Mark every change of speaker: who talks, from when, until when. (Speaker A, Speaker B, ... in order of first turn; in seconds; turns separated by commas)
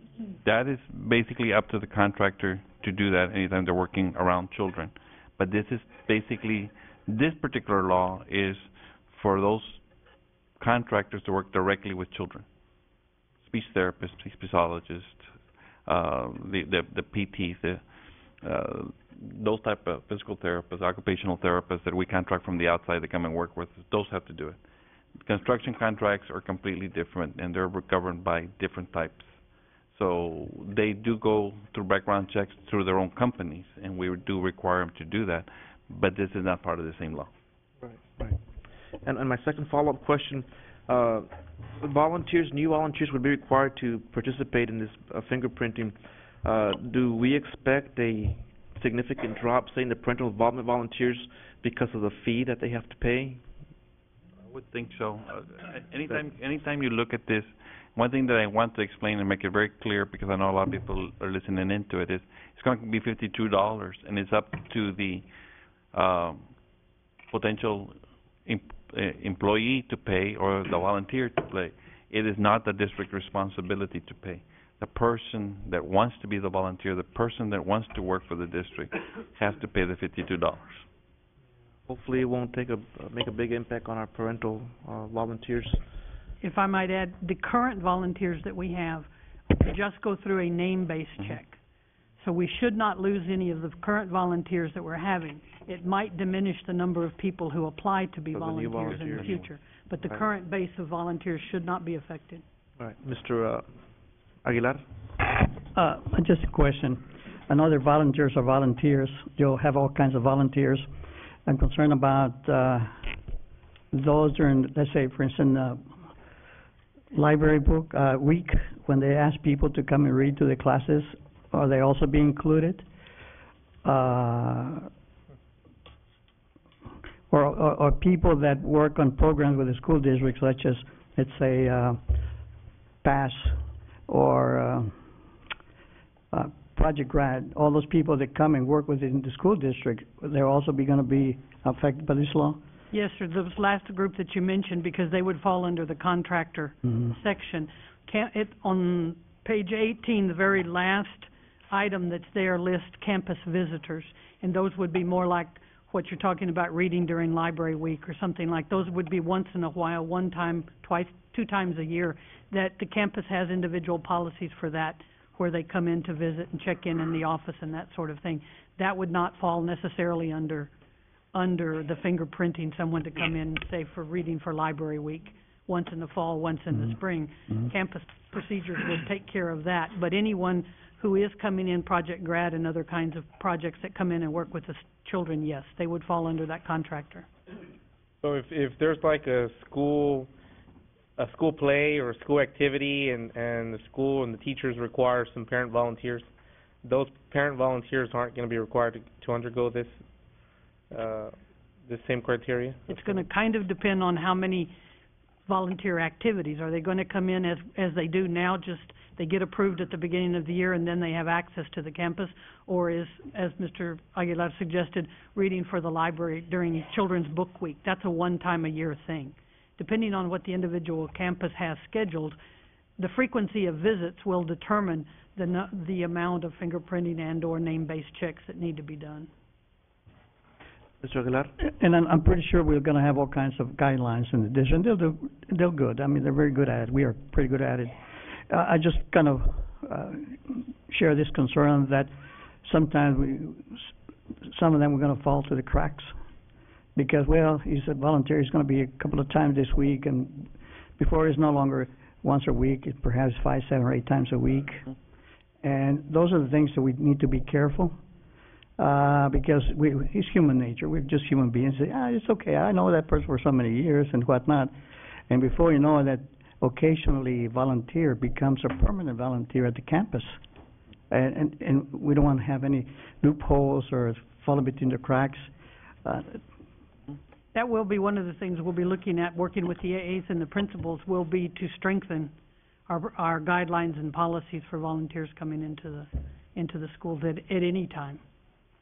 Speaker A: 0.4-9.8, Speaker A: 10.6-12.4, Speaker A: 13.4-15.3, Speaker A: 15.8-17.8, Speaker A: 18.4-24.6, Speaker A: 25.2-29.4, Speaker A: 29.9-37.3, Speaker B: 37.8-38.4, Speaker B: 39.0-53.4, Speaker A: 54.5-65.2, Speaker A: 65.9-66.4, Speaker A: 67.3-80.8, Speaker B: 81.9-85.8, Speaker C: 86.4-91.6, Speaker C: 92.2-102.4, Speaker B: 98.3-99.5, Speaker B: 102.8-103.8, Speaker B: 104.4-104.8, Speaker D: 105.7-110.9, Speaker D: 111.5-113.1, Speaker D: 113.9-115.9, Speaker D: 117.1-122.8, Speaker D: 123.8-124.9, Speaker D: 127.3-132.2, Speaker D: 133.0-135.0, Speaker D: 136.3-142.6, Speaker C: 142.9-170.7, Speaker D: 146.8-147.1, Speaker C: 171.3-187.3, Speaker E: 188.2-190.3, Speaker E: 191.2-196.3, Speaker E: 196.8-200.0, Speaker E: 200.9-203.2, Speaker C: 202.9-204.7, Speaker C: 205.4-222.4, Speaker C: 223.0-229.3, Speaker B: 231.0-231.5, Speaker D: 231.6-242.1, Speaker D: 242.6-246.1, Speaker D: 246.9-254.8, Speaker D: 255.6-258.0, Speaker D: 258.8-264.7, Speaker D: 265.3-270.4, Speaker D: 271.1-275.5, Speaker D: 276.0-276.4, Speaker C: 277.5-282.3, Speaker C: 282.9-288.2